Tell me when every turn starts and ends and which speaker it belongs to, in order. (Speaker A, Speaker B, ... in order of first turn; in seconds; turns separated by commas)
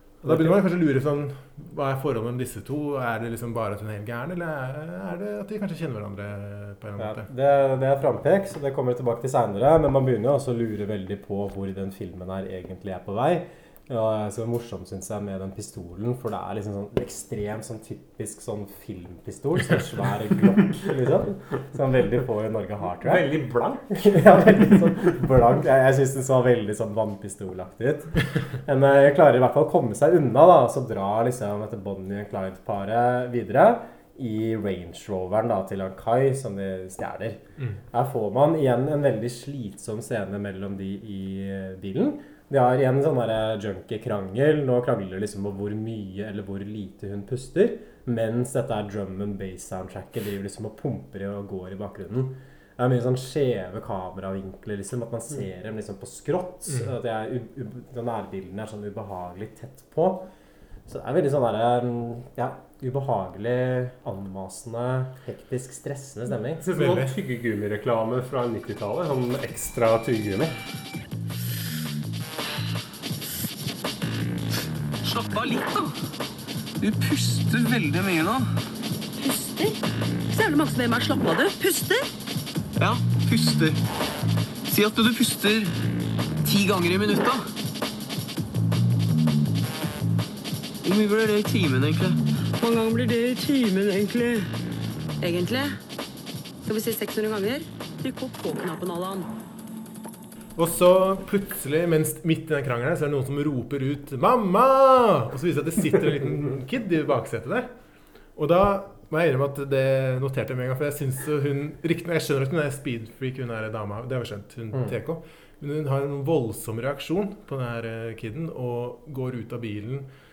Speaker A: 0.2-7.3, Speaker B: 0.2-0.6, Speaker B: 7.0-23.3, Speaker C: 23.0-25.0, Speaker B: 23.9-37.4, Speaker B: 37.9-60.3, Speaker B: 60.9-66.6, Speaker C: 66.6-70.5, Speaker A: 66.8-67.1, Speaker D: 75.0-75.9, Speaker D: 76.8-78.5, Speaker E: 79.2-79.8, Speaker E: 80.3-82.1, Speaker D: 82.8-83.8, Speaker D: 84.7-85.8, Speaker D: 86.4-87.4, Speaker D: 90.8-92.2, Speaker E: 92.6-94.5, Speaker E: 95.2-95.8, Speaker E: 96.7-99.3, Speaker A: 100.6-107.7, Speaker A: 108.4-120.1